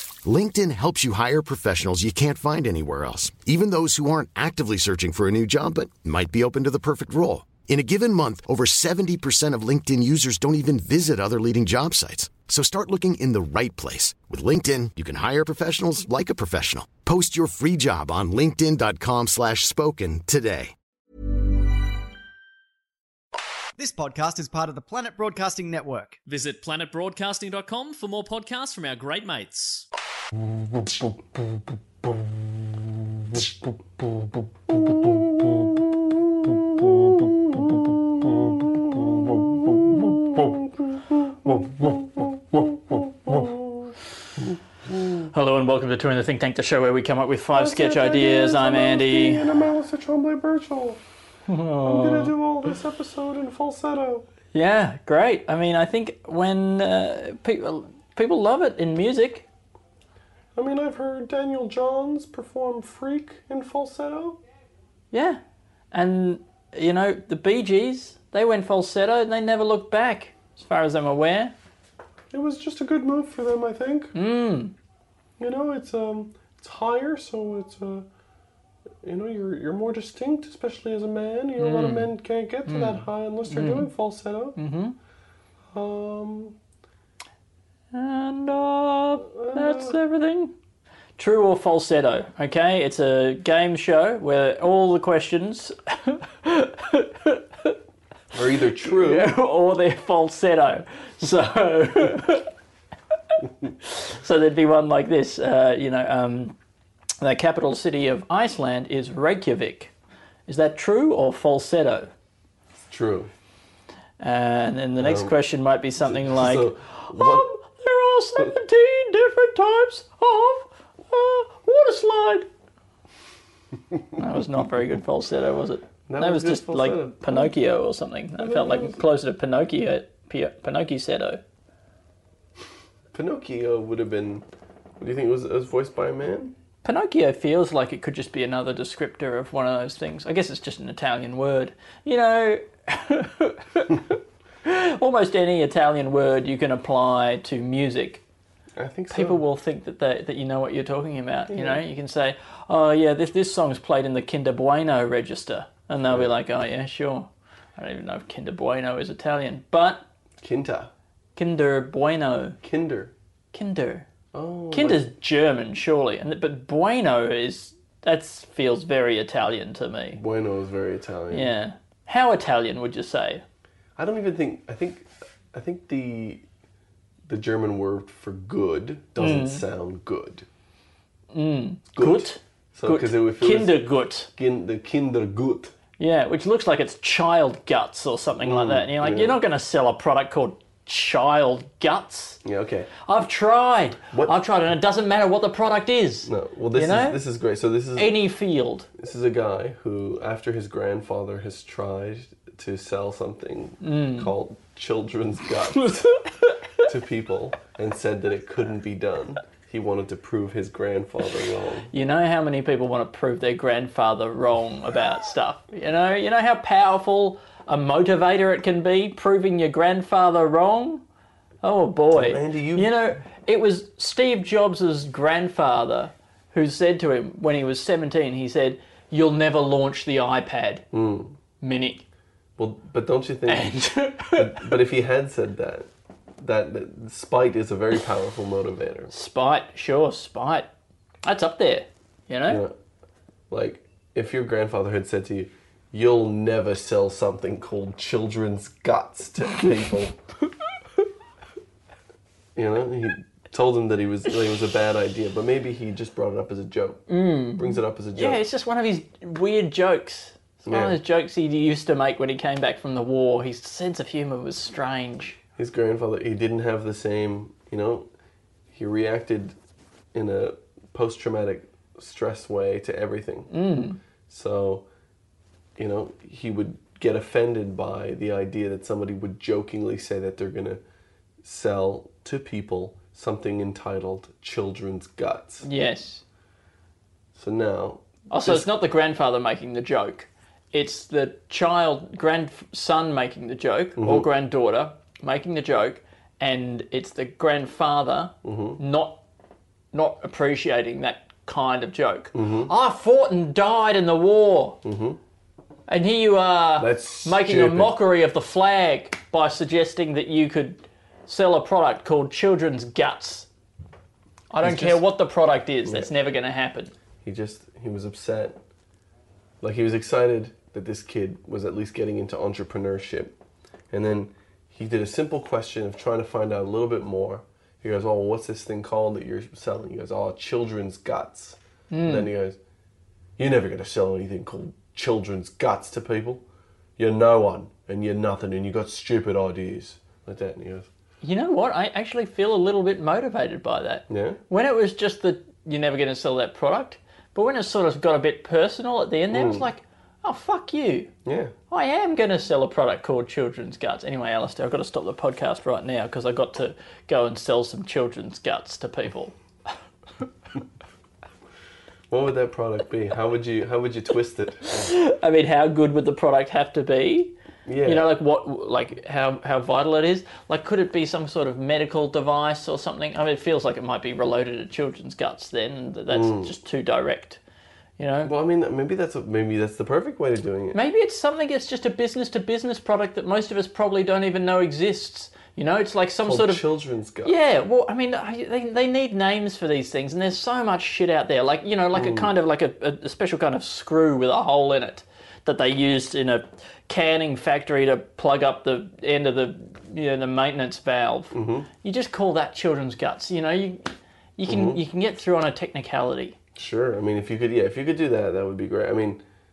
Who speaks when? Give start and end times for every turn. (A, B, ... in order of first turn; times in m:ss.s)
0:00.2-0:20.8 A
0:23.8-0:26.2 B
0:26.3-0:29.9 C
0:34.7-0:35.9 D
0:36.4-0:44.0 D
0:44.9-0:45.3 D
0:45.3-0:49.5 E
0:47.5-0:51.0 D
0:51.5-0:52.3 E
0:51.8-0:54.3 D
0:54.5-0:59.4 E
1:00.6-1:04.4 D
1:05.1-1:05.4 E
1:05.9-1:11.5 E
1:12.3-1:14.1 D
1:14.1-1:14.7 E
1:15.4-1:18.1 D
1:19.0-1:24.6 D
1:21.6-1:22.1 E
1:22.7-1:23.9 E
1:24.6-1:25.0 E
1:25.7-1:26.6 D
1:27.9-1:30.5 E
1:29.2-1:30.0 D
1:31.2-1:37.8 E
1:38.3-1:39.3 D
1:38.8-1:42.5 E
1:43.9-1:46.6 E
1:47.2-1:49.9 E
1:50.5-1:52.1 E
1:52.9-1:53.3 D
1:54.2-2:02.5 E
1:55.0-1:55.3 D
1:56.0-1:57.5 D
2:04.2-2:11.4 E
2:06.1-2:07.5 D
2:08.4-2:09.0 D
2:13.1-2:14.4 D
2:15.0-2:16.5 D
2:16.8-2:28.2 E
2:28.8-2:29.4 D
2:29.1-2:40.0 E
2:31.5-2:31.8 D
2:36.1-2:36.4 D
2:40.4-2:40.9 D
2:41.4-2:42.6 E
2:42.6-2:43.1 D
2:43.5-2:44.1 E
2:44.3-2:45.1 D
2:44.7-2:50.2 E
2:50.1-2:51.5 D
2:51.3-2:53.4 E
2:54.0-2:56.4 D
2:57.2-3:00.4 D
2:59.2-2:59.6 E
3:01.3-3:04.3 E
3:01.9-3:05.8 D
3:06.0-3:12.4 E
3:08.4-3:09.4 D
3:12.4-3:12.9 D
3:13.0-3:17.2 E
3:16.2-3:18.2 D
3:17.9-3:18.9 E
3:19.0-3:26.1 D
3:23.8-3:24.3 E
3:26.0-3:26.5 E
3:26.8-3:31.9 D
3:31.9-3:41.0 E
3:41.6-3:50.8 E
3:42.1-3:42.9 D
3:50.9-3:51.4 D
3:51.6-3:52.0 E
3:52.6-3:59.1 D
3:53.5-3:54.7 E
3:59.1-4:00.7 E
4:01.2-4:02.6 E
4:02.5-4:02.7 D
4:03.5-4:10.2 D
4:12.6-4:18.4 D
4:17.1-4:25.4 E
4:20.7-4:21.0 D
4:25.6-4:28.1 D
4:28.7-4:29.6 D
4:30.1-4:33.5 D
4:33.5-4:34.0 E
4:34.3-4:34.8 D
4:35.8-4:40.8 D
4:41.4-4:45.7 D
4:45.6-4:46.2 E
4:47.4-4:48.7 D
4:48.3-4:59.2 E
4:54.0-4:54.2 D
4:58.4-4:58.8 D
4:59.9-5:04.8 E
5:02.3-5:02.7 D
5:04.8-5:05.2 D
5:05.9-5:13.5 E
5:06.8-5:07.9 D
5:14.5-5:16.9 E
5:14.6-5:15.0 D
5:15.8-5:16.1 D
5:17.2-5:18.6 D
5:19.6-5:23.4 D
5:23.9-5:32.6 D
5:31.9-5:32.3 E
5:33.4-5:36.4 D
5:37.0-5:40.9 D
5:41.2-5:51.1 E
5:44.1-5:44.4 D
5:49.3-5:49.7 D
5:51.2-5:51.5 D
5:51.7-5:59.4 E
6:02.1-6:04.9 D
6:04.7-6:07.3 E
6:07.7-6:08.1 D
6:07.8-6:17.4 E
6:16.1-6:16.5 D
6:18.0-6:18.3 E
6:18.2-6:20.8 D
6:20.7-6:26.6 E
6:26.2-6:27.4 D
6:27.2-6:46.4 E
6:31.9-6:32.3 D
6:41.3-6:41.7 D
6:44.5-6:44.8 D
6:46.6-6:49.2 D